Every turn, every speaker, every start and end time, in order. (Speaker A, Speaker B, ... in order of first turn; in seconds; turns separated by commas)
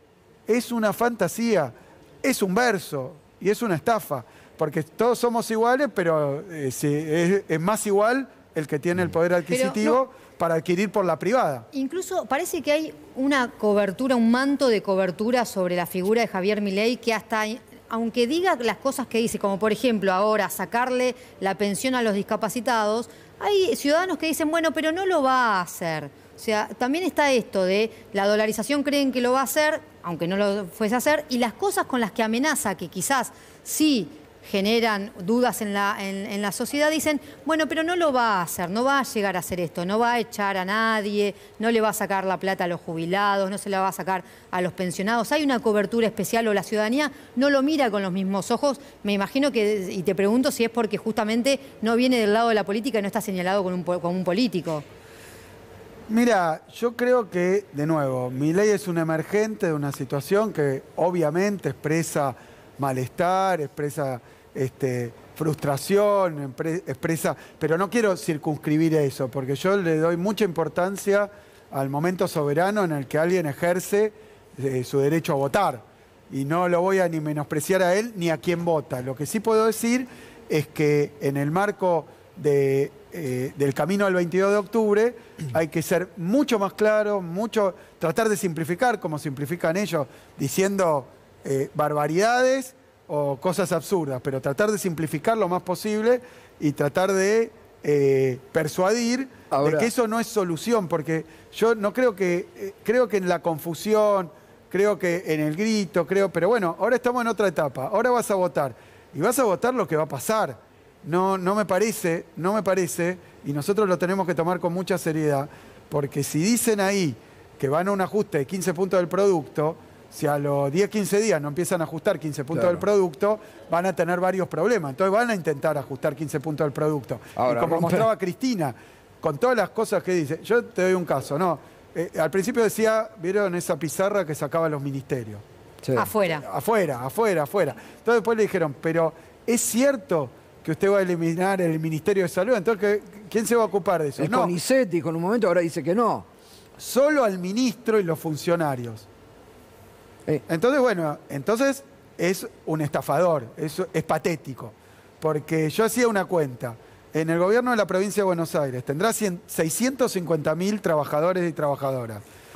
Speaker A: 0.5-11.7, Speaker B: 9.5-10.0, Speaker B: 11.7-54.8, Speaker A: 56.1-135.4, Speaker C: 99.5-99.9, Speaker C: 122.5-122.8, Speaker C: 127.3-128.1, Speaker C: 135.8-136.1, Speaker B: 136.0-136.4, Speaker A: 136.3-144.5, Speaker C: 144.2-146.3, Speaker A: 146.8-149.1, Speaker A: 150.5-162.2